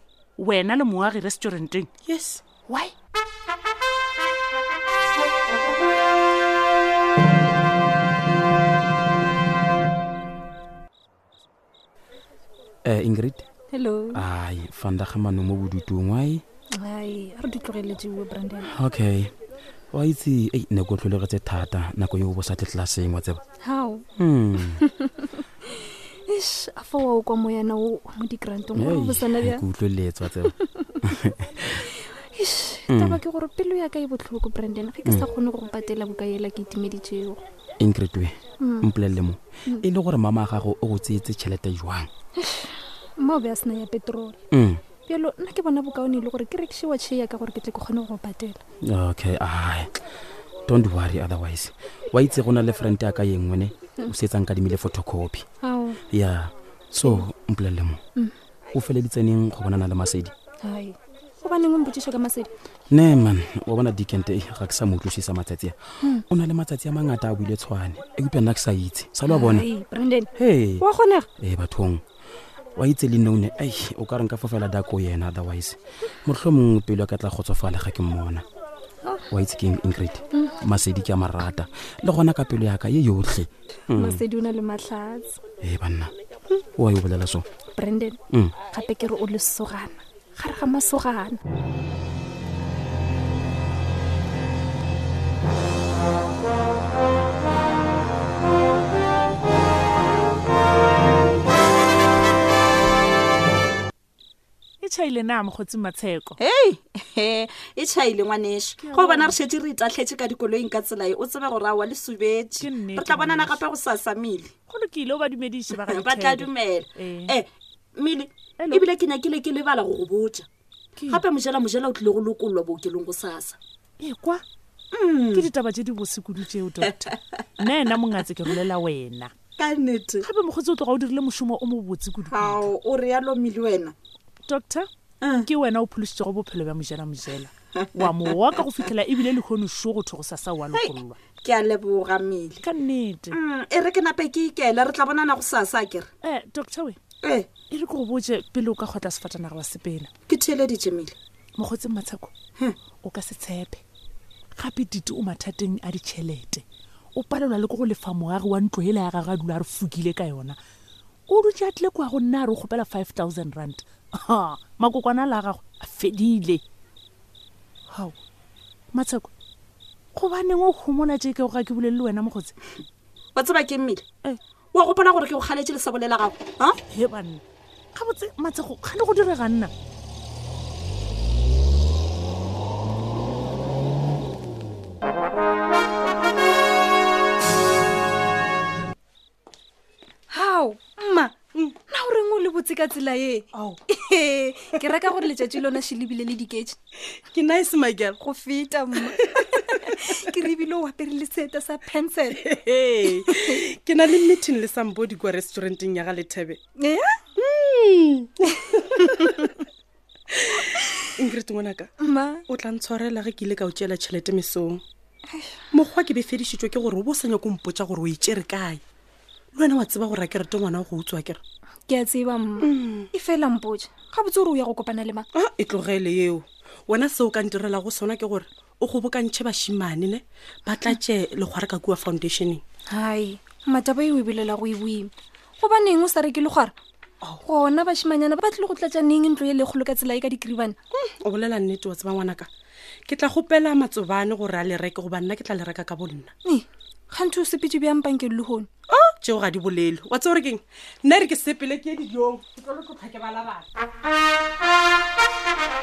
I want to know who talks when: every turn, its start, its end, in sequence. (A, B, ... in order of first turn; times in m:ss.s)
0:00.4-0:01.9 A
0:02.0-0:02.4 B
0:02.7-0:02.9 A
0:12.8-0:13.4 C
0:13.7-0:14.2 D
0:14.1-0:16.4 C
0:16.8-0:18.7 D
0:18.7-0:19.3 C
0:19.9-0:23.4 C
0:23.6-0:24.0 D
0:24.2-0:24.8 C
0:24.7-0:29.6 D
0:28.7-0:31.8 C
0:30.6-0:31.0 D
0:32.3-0:37.4 D
0:32.9-0:33.2 C
0:37.8-0:42.1 C
0:38.6-0:38.9 D
0:42.4-0:44.4 D
0:44.5-0:44.8 C
0:45.1-0:48.6 D
0:48.8-0:49.9 C
0:50.7-0:55.4 C
0:55.6-0:56.0 D
0:56.1-0:58.0 C
0:58.7-1:00.3 C
1:00.6-1:02.5 D
1:02.9-1:05.8 C
1:06.3-1:09.7 C
1:09.3-1:11.3 D
1:10.4-1:10.8 C
1:11.4-1:12.0 C
1:12.8-1:18.4 C
1:19.3-1:24.2 C
1:23.9-1:25.4 D
1:25.6-1:26.1 C
1:26.8-1:27.4 C
1:27.7-1:28.2 D
1:28.7-1:31.4 D
1:44.8-1:46.4 A
1:46.4-1:54.5 E
1:48.8-1:49.4 A
1:52.6-1:53.6 A
1:54.7-1:57.4 A
1:55.8-2:00.4 E
1:58.6-1:58.9 A
2:01.1-2:03.6 E
2:04.0-2:04.4 A
2:04.9-2:05.5 E
2:05.3-2:09.3 A
2:07.3-2:07.6 E
2:09.6-2:10.3 E
2:10.2-2:12.7 A
2:12.3-2:13.9 E
2:14.5-2:14.9 A
2:15.2-2:15.5 E
2:15.4-2:21.2 A
2:17.7-2:18.2 E
2:20.7-2:22.6 E
2:22.6-2:23.4 A
2:23.3-2:26.1 E
2:26.2-2:27.0 A
2:27.2-2:27.5 E
2:27.7-2:30.1 A
2:30.3-2:31.1 E
2:31.6-2:32.3 A
2:33.0-2:33.8 A
2:34.6-2:36.6 A
2:37.2-2:40.6 A
2:41.3-2:46.6 A
2:48.9-2:49.3 A
2:50.2-2:52.5 A
2:53.3-2:54.0 E
2:54.7-2:56.8 E
2:56.9-2:57.4 A
2:57.9-2:59.7 A
3:10.3-3:11.3 D
3:11.9-3:16.8 D
3:17.3-3:18.2 B
3:18.2-3:22.4 D
3:22.3-3:26.6 B
3:26.8-3:27.2 D
3:27.4-3:29.4 B
3:31.2-3:31.9 B
3:32.0-3:32.4 D
3:32.5-3:34.8 B
3:35.3-3:35.6 D
3:35.7-3:38.8 B
3:39.5-3:41.4 B
3:41.9-3:45.3 D
3:42.6-3:43.1 B
3:45.3-3:52.6 B
3:52.9-3:56.7 D
3:57.4-4:00.8 D
4:00.9-4:02.5 B
4:03.1-4:06.3 B
4:06.4-4:08.7 D
4:08.9-4:13.6 B